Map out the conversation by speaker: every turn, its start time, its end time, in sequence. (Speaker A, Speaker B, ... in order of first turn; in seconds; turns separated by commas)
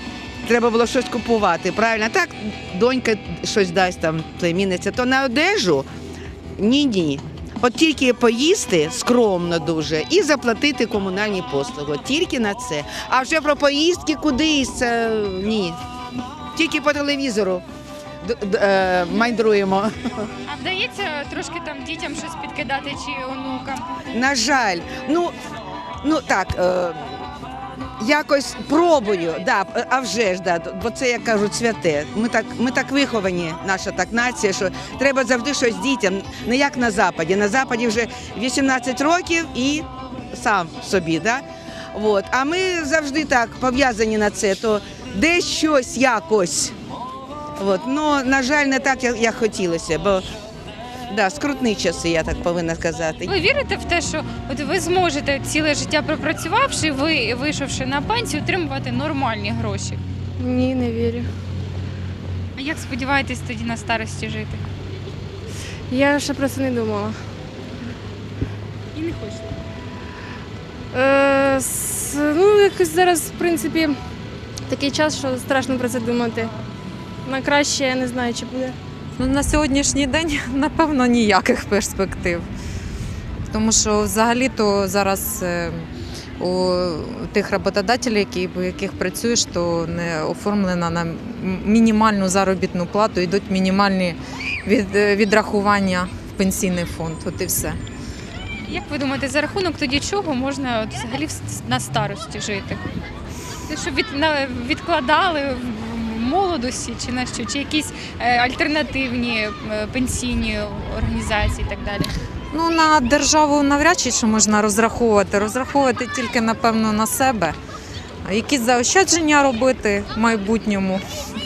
Speaker A: 0.4-5.9, Speaker A: 6.6-15.8, Speaker A: 16.5-17.6, Speaker A: 18.2-20.3, Speaker B: 20.4-23.9, Speaker A: 24.1-25.4, Speaker A: 26.0-27.3, Speaker A: 28.0-46.7, Speaker A: 47.6-50.3, Speaker A: 51.1-53.3, Speaker B: 53.2-60.0, Speaker C: 60.4-61.3, Speaker B: 62.5-64.6, Speaker C: 65.9-67.2, Speaker B: 68.9-69.5, Speaker C: 70.9-74.0, Speaker C: 74.7-76.5, Speaker C: 77.2-78.8, Speaker D: 79.2-82.5, Speaker D: 83.5-85.9, Speaker D: 86.4-97.8, Speaker B: 98.7-102.8, Speaker B: 103.7-112.1, Speaker D: 112.5-117.5, Speaker D: 118.2-121.0